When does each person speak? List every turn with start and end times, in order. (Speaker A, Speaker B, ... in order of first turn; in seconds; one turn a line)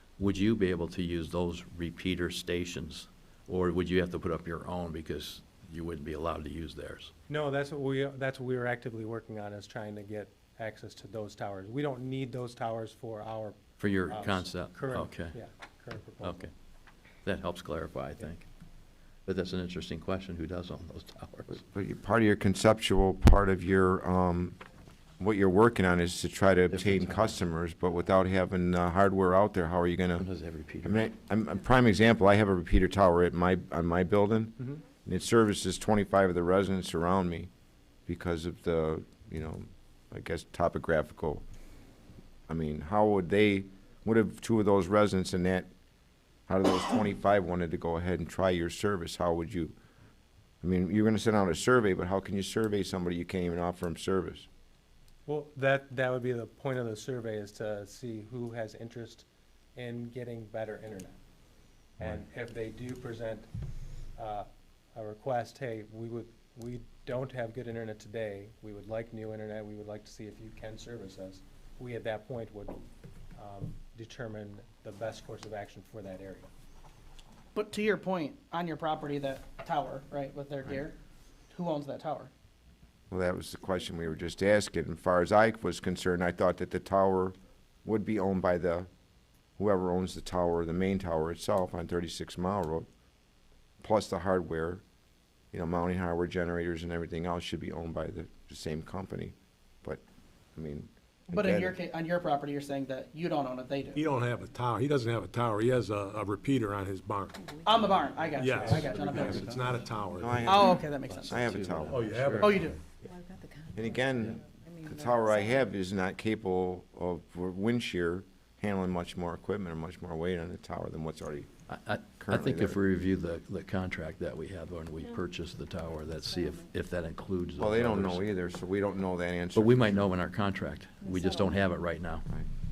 Speaker A: 0.2-7.1
Speaker B: 7.3-16.5
Speaker A: 13.8-15.4
Speaker A: 16.2-16.5
Speaker A: 17.2-18.5
Speaker A: 19.3-21.6
Speaker C: 21.5-24.6
Speaker C: 25.2-30.3
Speaker A: 26.7-27.4
Speaker A: 30.2-31.1
Speaker C: 30.8-37.5
Speaker C: 38.1-41.4
Speaker C: 42.5-45.7
Speaker C: 46.5-49.8
Speaker C: 50.6-54.5
Speaker B: 55.3-61.2
Speaker B: 62.0-63.5
Speaker B: 64.2-72.8
Speaker B: 73.3-76.5
Speaker D: 77.5-81.0
Speaker D: 81.5-82.3
Speaker C: 83.1-88.9
Speaker C: 89.6-92.9
Speaker C: 93.8-94.8
Speaker C: 95.5-100.0
Speaker C: 100.6-101.8
Speaker D: 101.3-104.0
Speaker E: 104.0-107.5
Speaker F: 107.4-109.8
Speaker D: 107.6-109.7
Speaker E: 108.4-110.7
Speaker A: 108.7-109.7
Speaker C: 110.2-112.5
Speaker D: 110.5-111.8
Speaker A: 110.7-112.8
Speaker E: 111.9-112.8
Speaker D: 112.4-112.8
Speaker F: 113.0-115.7
Speaker C: 113.8-121.5
Speaker A: 121.7-128.2
Speaker C: 122.2-122.8
Speaker F: 126.2-126.7
Speaker C: 127.6-130.1
Speaker A: 129.5-132.2
Speaker F: 131.0-131.7